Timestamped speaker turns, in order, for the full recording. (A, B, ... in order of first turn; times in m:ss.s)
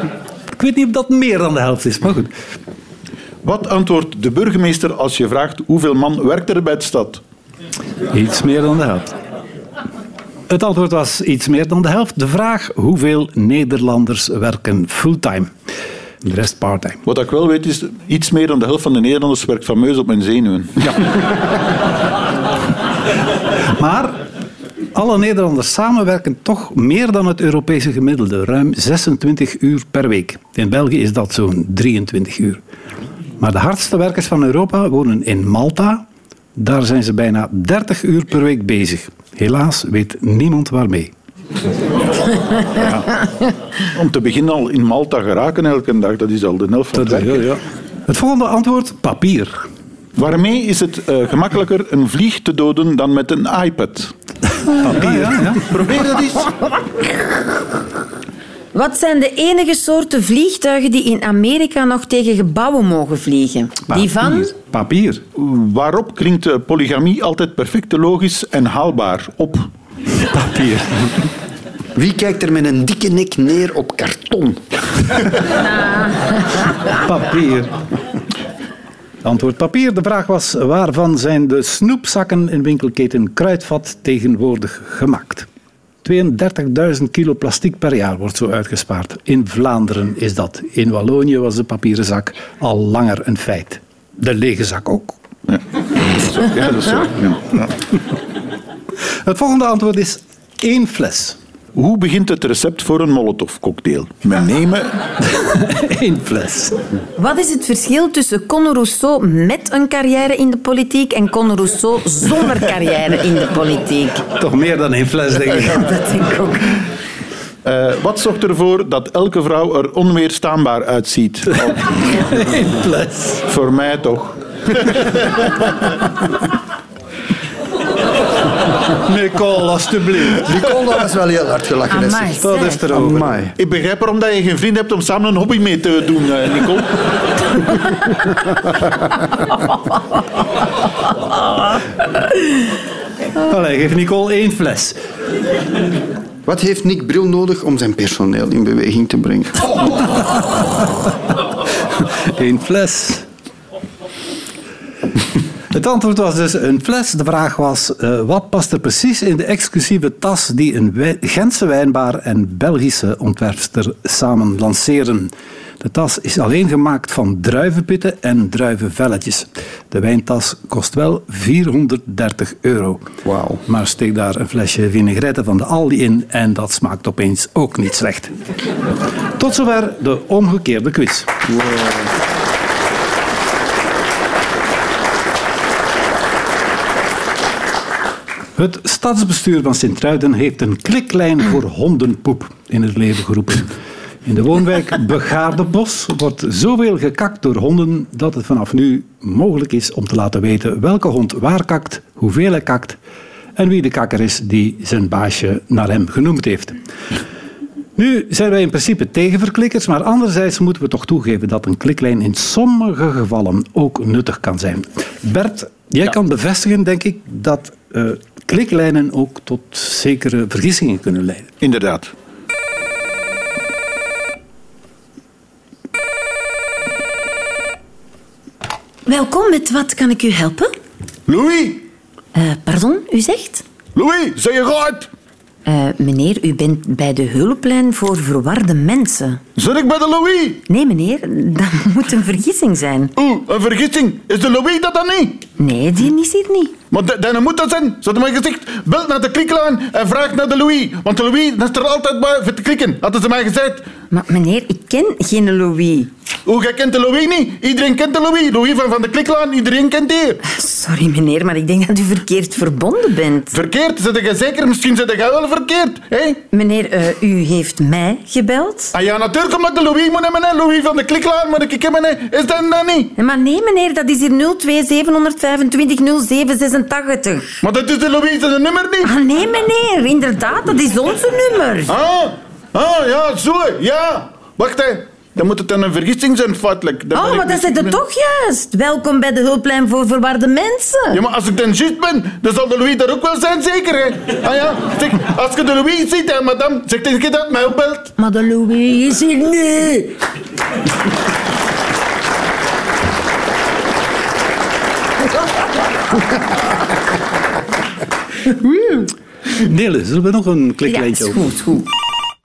0:00.5-0:02.3 A
0:03.4-0:07.2 B
0:08.1-0:09.2 A
0:10.5-0:15.5 A
0:16.2-0:17.0 A
0:17.1-0:21.1 B
0:23.8-0:24.2 A
0:24.9-0:32.6 A
0:33.4-0:36.0 A
0:36.6-0:41.1 A
0:42.6-0:43.2 B
0:43.9-0:47.4 B
0:46.9-0:49.6 A
0:50.2-0:54.1 B
0:54.7-0:55.7 A
0:54.8-0:56.6 B
0:58.7-1:04.5 C
1:03.9-1:05.2 A
1:05.4-1:09.7 B
1:10.2-1:11.1 A
1:12.0-1:15.3 D
1:15.8-1:16.2 C
1:17.0-1:17.8 A
1:19.2-1:25.5 A
1:26.0-1:35.2 A
1:35.5-1:37.7 B
1:39.2-1:41.4 A
1:41.8-1:44.9 B
1:45.3-1:46.8 A
1:47.2-1:54.2 C
1:54.3-1:55.8 A
1:55.7-1:56.8 C
1:57.6-2:02.0 B
2:01.6-2:03.4 A
2:03.5-2:05.5 B
2:08.9-2:10.5 A
2:10.3-2:13.6 D
2:11.9-2:12.8 C
2:12.4-2:13.4 A
2:13.6-2:17.6 B
2:23.4-2:25.0 A
2:26.4-2:30.1 D
2:32.0-2:33.3 A
2:35.7-2:53.0 A
2:53.2-2:53.6 D
2:53.6-2:58.3 A
2:59.4-3:01.3 A
3:01.5-3:02.1 D
3:08.6-3:13.7 A
3:14.2-3:23.0 A
3:23.6-3:26.8 A
3:28.0-3:41.5 A
3:41.6-3:42.1 B
3:49.1-3:50.7 C
3:51.3-3:51.9 B
3:52.4-3:53.6 C
3:53.9-3:55.1 B
3:55.6-3:59.4 C
3:59.6-4:00.6 B
4:00.7-4:03.1 C
4:03.2-4:05.4 B
4:05.6-4:06.7 C
4:06.9-4:13.9 B
4:14.1-4:16.1 C
4:16.4-4:20.4 B
4:20.5-4:23.6 C
4:23.5-4:26.4 B
4:26.5-4:28.9 C
4:28.9-4:33.1 B
4:33.2-4:37.5 C
4:37.6-4:39.1 B
4:39.0-4:42.0 C
4:41.9-4:48.0 B
4:47.1-4:51.2 C
4:51.1-4:58.1 B
4:58.2-5:00.1 C
5:08.5-5:09.0 D
5:09.5-5:11.4 A
5:10.9-5:11.9 C